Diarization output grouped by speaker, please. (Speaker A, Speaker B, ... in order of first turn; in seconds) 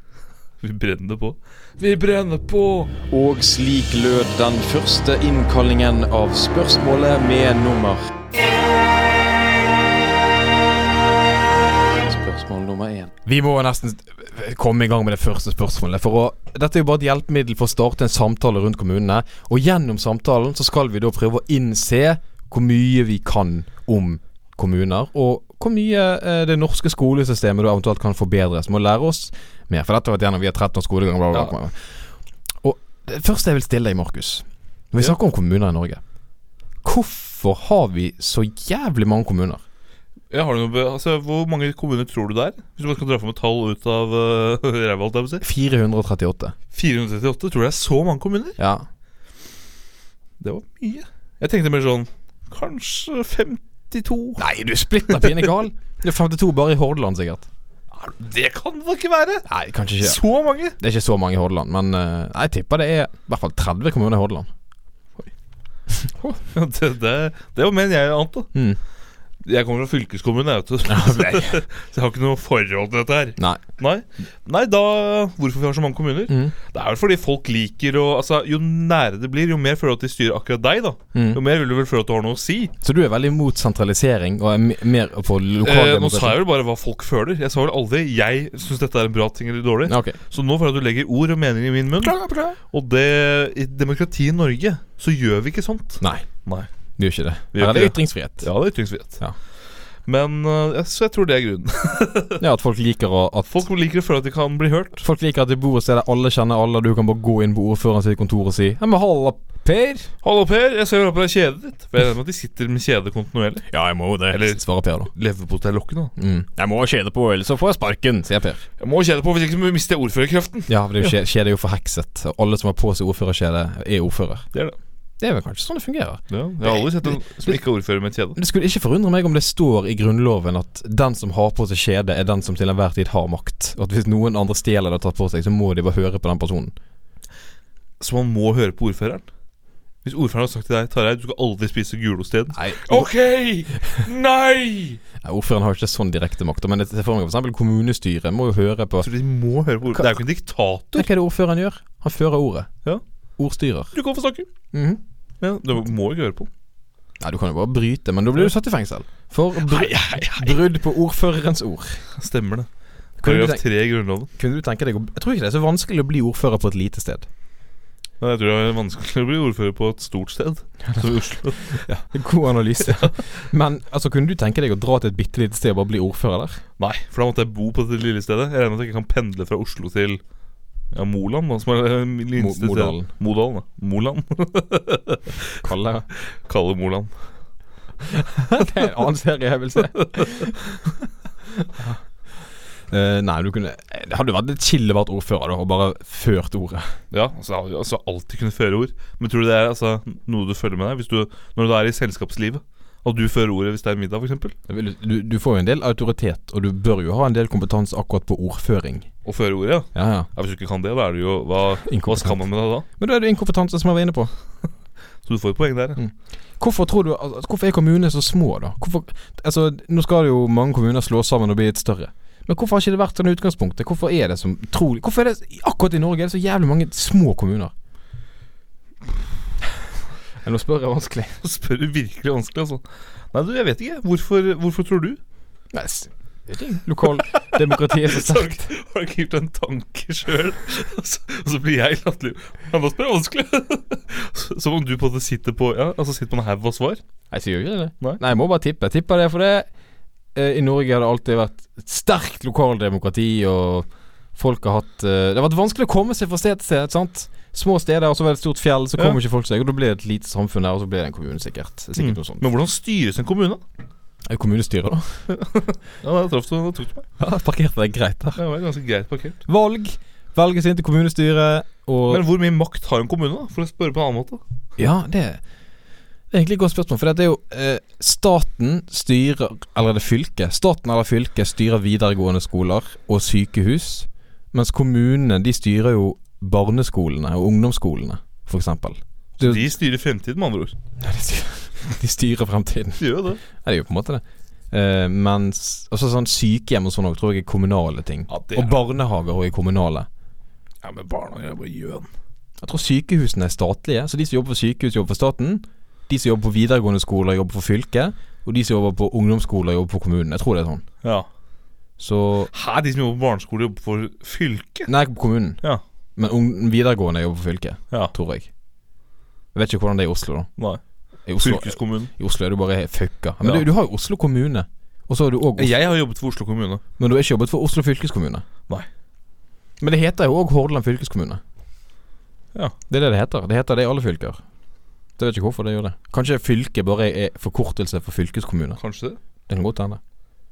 Speaker A: 0.6-2.9, 40.3-45.4, 46.7-48.6, 50.4-54.4, 55.1-55.4, 57.9-59.5, 60.0-60.7, 66.5-68.5, 69.4-82.7, 85.6-96.7, 97.5-99.2, 100.0-102.4, 103.5-105.0, 110.2-113.7, 114.3-116.1, 118.8-121.1, 126.3-128.3, 138.0-139.3, 140.0-145.0, 149.0-151.1, 153.9-154.5, 155.4-156.5, 159.6-160.6, 162.1-162.7, 163.2-164.3, 168.2-171.8, 172.8-173.1, 176.8-180.2, 180.9-185.6, 186.3-187.1, 197.1-204.5, 209.2-212.8, 215.2-216.0, 231.4-235.2, 237.0-247.0, 261.9-263.6, 265.3-267.1, 268.4-269.4, 272.1-274.4, 289.4-290.8, 293.0-293.4, 298.3-298.8, 300.8-302.1, 311.0-311.3, 312.5-314.9, 321.4-322.1, 325.6-326.8, 338.8-339.2
Speaker B: 3.1-6.3, 7.1-7.9, 13.2-31.8, 32.6-36.0, 36.8-39.6, 45.4-46.5, 48.6-48.8, 54.4-57.5, 59.5-60.2, 60.8-64.5, 66.0-66.4, 68.5-68.8, 70.9-71.5, 73.4-73.6, 76.3-76.5, 81.1-81.4, 82.8-86.4, 89.8-90.2, 92.0-92.6, 96.0-96.2, 97.0-98.5, 102.4-103.6, 105.0-110.1, 113.7-115.1, 116.2-118.6, 120.7-124.5, 125.2-127.6, 128.3-136.7, 142.5-143.1, 145.2-149.1, 150.9-152.7, 153.4-153.9, 154.7-155.0, 157.2-162.0, 163.2-163.6, 164.3-167.3, 171.7-176.6, 182.4-183.1, 185.6-186.1, 188.1-190.6, 191.6-192.0, 192.9-196.9, 204.7-209.1, 209.9-210.3, 211.8-214.3, 216.0-227.7, 230.4-231.4, 235.7-238.7, 247.3-249.7, 250.3-262.4, 264.2-265.2, 267.2-268.4, 269.5-272.2, 274.8-275.4, 276.3-289.7, 291.0-300.1, 302.6-310.8, 312.0-312.5, 314.9-315.6, 316.1-318.5, 319.5-320.5, 321.2-325.7, 327.0-328.4, 329.8-331.4, 332.9-334.4, 335.2-338.8, 339.5-340.0
Speaker C: 3.3-8.0, 12.1-13.1